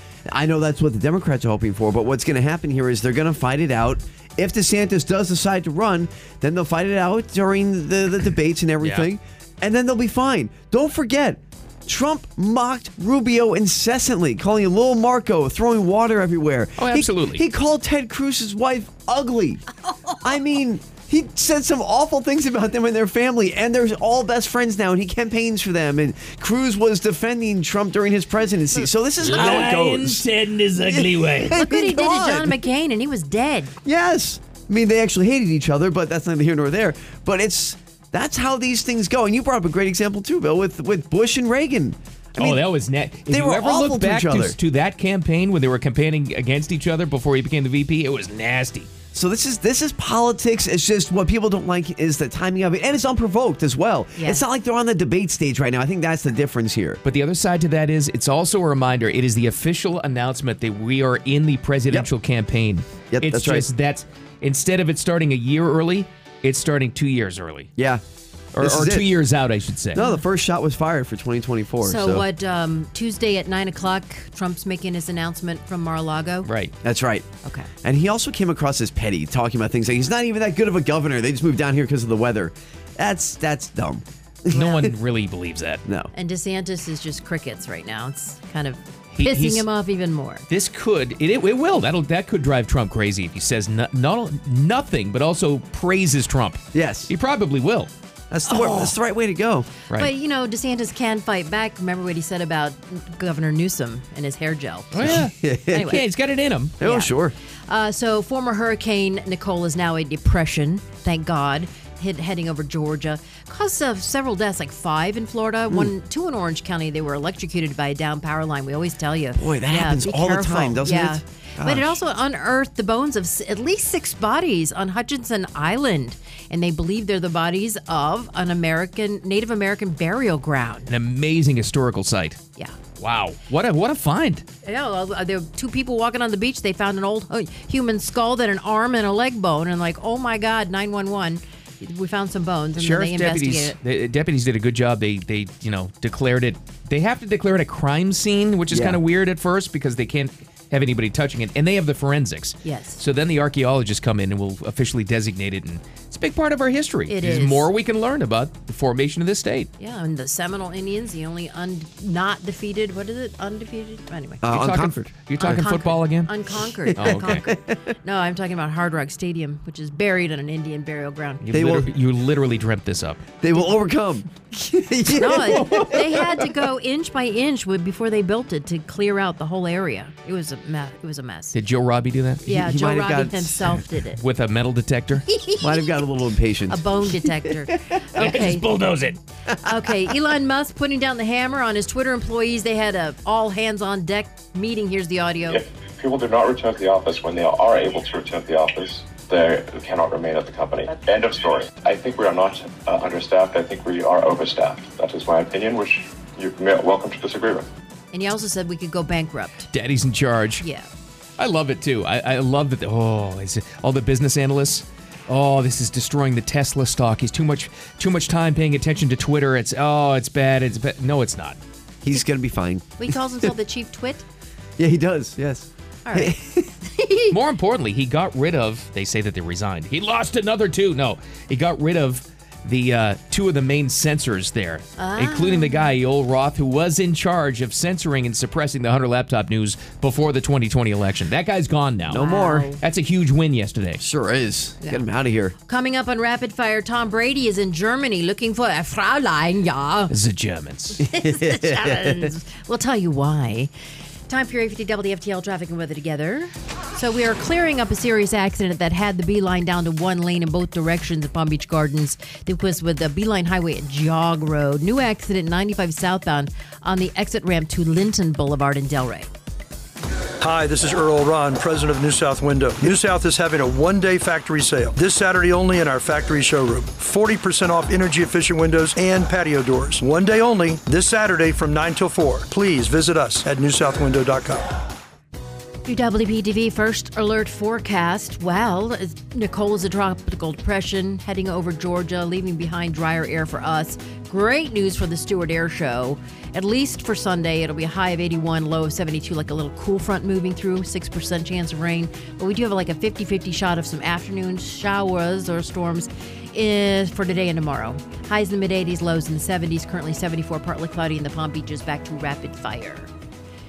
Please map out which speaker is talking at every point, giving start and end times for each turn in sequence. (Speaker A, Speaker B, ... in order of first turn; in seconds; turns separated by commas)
Speaker A: 0.3-19.6, Speaker B: 8.8-9.1, Speaker B: 16.8-17.4, Speaker C: 19.8-20.2, Speaker A: 20.2-30.2, Speaker B: 29.2-31.6, Speaker A: 30.9-32.7, Speaker C: 31.5-33.8, Speaker A: 33.9-42.6, Speaker B: 42.4-48.9, Speaker A: 43.3-44.6, Speaker A: 49.1-57.0, Speaker C: 54.2-54.4, Speaker B: 57.0-67.7, Speaker A: 63.1-63.7, Speaker A: 68.5-69.1, Speaker B: 68.6-70.0, Speaker A: 69.9-72.3, Speaker C: 71.8-76.5, Speaker B: 76.5-76.7, Speaker A: 76.8-77.2, Speaker C: 77.4-77.7, Speaker A: 77.8-84.9, Speaker B: 84.5-85.8, Speaker A: 85.9-86.1, Speaker C: 86.1-90.5, Speaker B: 89.1-89.7, Speaker B: 90.5-97.9, Speaker A: 96.7-97.1, Speaker A: 98.3-99.7, Speaker C: 98.5-99.0, Speaker C: 99.9-106.0, Speaker B: 104.9-106.8, Speaker A: 105.0-106.0, Speaker A: 106.8-107.3, Speaker C: 106.8-107.2, Speaker C: 107.7-130.9, Speaker A: 119.3-122.0, Speaker B: 130.9-132.4, Speaker B: 133.0-134.4, Speaker C: 134.6-143.8, Speaker B: 142.8-159.7, Speaker A: 148.7-149.0, Speaker C: 152.6-153.0, Speaker C: 157.1-157.7, Speaker C: 159.8-164.4, Speaker A: 164.4-165.6, Speaker B: 164.4-166.3, Speaker C: 165.4-167.5, Speaker A: 166.9-167.8, Speaker B: 167.0-167.5, Speaker C: 168.0-171.4, Speaker B: 171.4-173.2, Speaker A: 171.5-171.9, Speaker A: 173.4-176.5, Speaker C: 175.2-181.6, Speaker B: 175.5-176.0, Speaker B: 181.5-182.4, Speaker A: 182.5-183.8, Speaker C: 182.5-184.2, Speaker B: 184.2-185.3, Speaker C: 185.3-185.9, Speaker A: 185.6-187.4, Speaker C: 186.7-188.7, Speaker A: 187.9-188.4, Speaker B: 188.2-189.2, Speaker C: 189.6-195.6, Speaker D: 195.5-207.7, Speaker C: 208.1-209.7, Speaker B: 209.7-210.6, Speaker C: 210.6-210.9, Speaker B: 211.4-221.6, Speaker A: 222.0-223.5, Speaker C: 223.0-224.2, Speaker A: 224.8-226.7, Speaker C: 226.1-227.4, Speaker B: 227.3-242.3, Speaker C: 235.0-235.9, Speaker A: 242.1-242.7, Speaker C: 242.2-242.8, Speaker B: 242.8-244.0, Speaker A: 244.0-245.6, Speaker C: 245.7-250.2, Speaker B: 250.1-251.0, Speaker C: 251.0-253.7, Speaker A: 251.1-252.3, Speaker C: 254.3-269.3, Speaker E: 270.4-284.7, Speaker C: 285.9-313.1